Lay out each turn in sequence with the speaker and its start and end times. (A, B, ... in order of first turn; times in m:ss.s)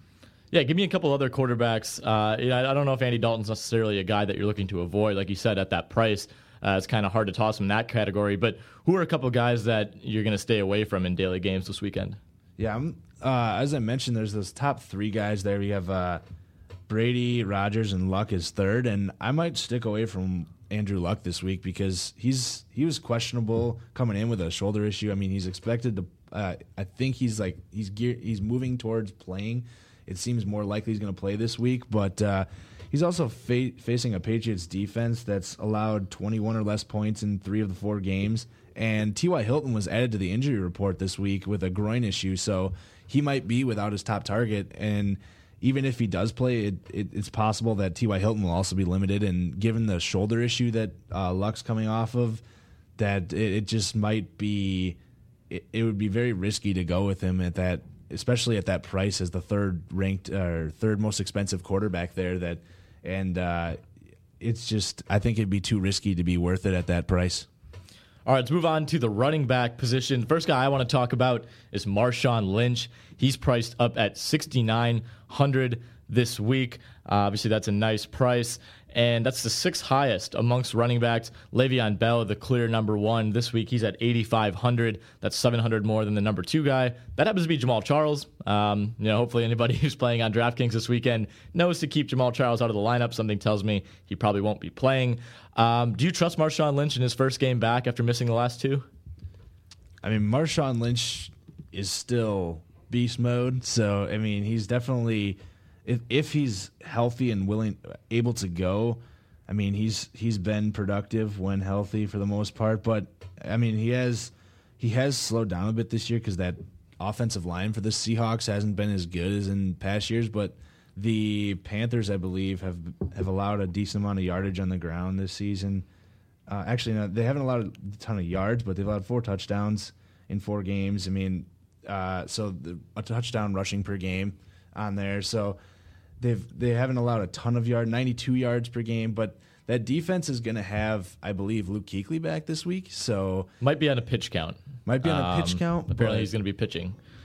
0:00.5-0:12.2 A
0:12.6-0:16.2 B
0:16.9-0:52.4 B
0:53.0-0:55.0 B
0:55.5-1:03.8 B
1:04.4-1:07.5 B
1:08.3-1:38.8 A
1:40.0-2:05.8 B
2:06.5-2:15.6 B
2:16.2-2:23.5 B
2:23.6-2:27.0 A
2:24.9-2:26.3 B